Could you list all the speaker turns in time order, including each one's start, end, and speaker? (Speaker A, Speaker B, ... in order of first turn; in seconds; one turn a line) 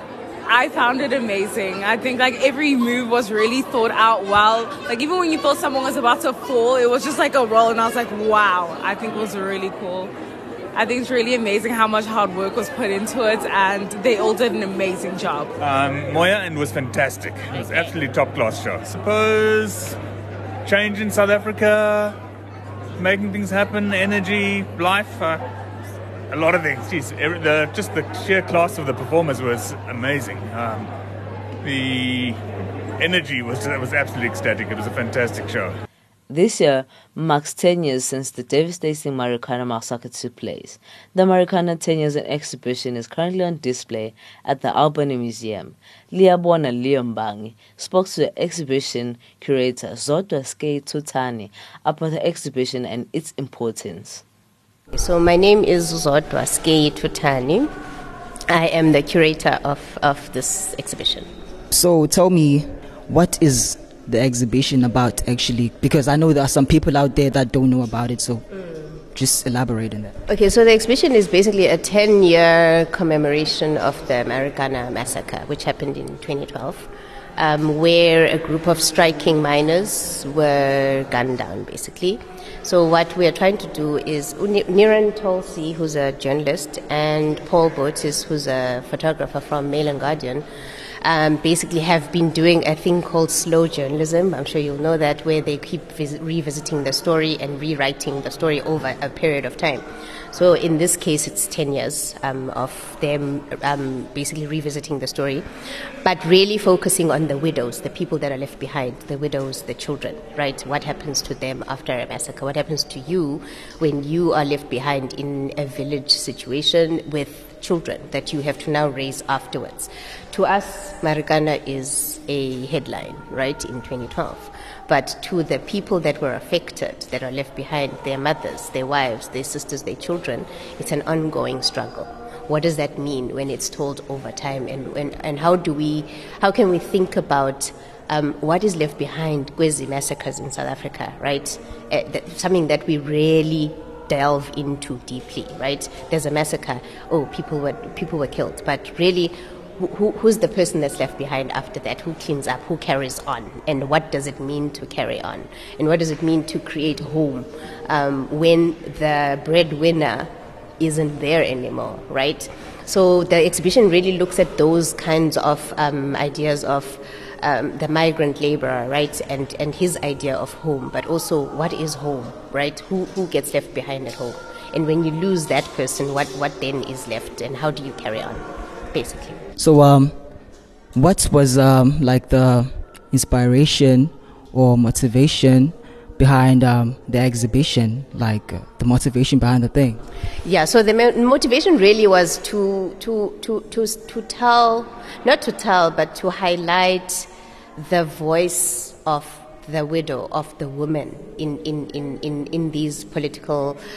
Speaker A: 0.5-10.1
Speaker A: 10.7-15.5
Speaker B: 15.6-20.0
Speaker B: 20.6-22.2
Speaker B: 23.0-25.4
Speaker B: 26.3-30.9
Speaker B: 31.6-32.4
Speaker B: 33.0-35.8
Speaker C: 36.3-54.2
Speaker D: 54.9-57.7
Speaker D: 58.5-61.3
Speaker E: 61.7-68.5
Speaker E: 69.1-70.1
Speaker D: 70.3-90.5
Speaker D: 91.0-105.5
Speaker D: 106.0-179.4
Speaker E: 179.6-190.0
Speaker D: 190.4-203.8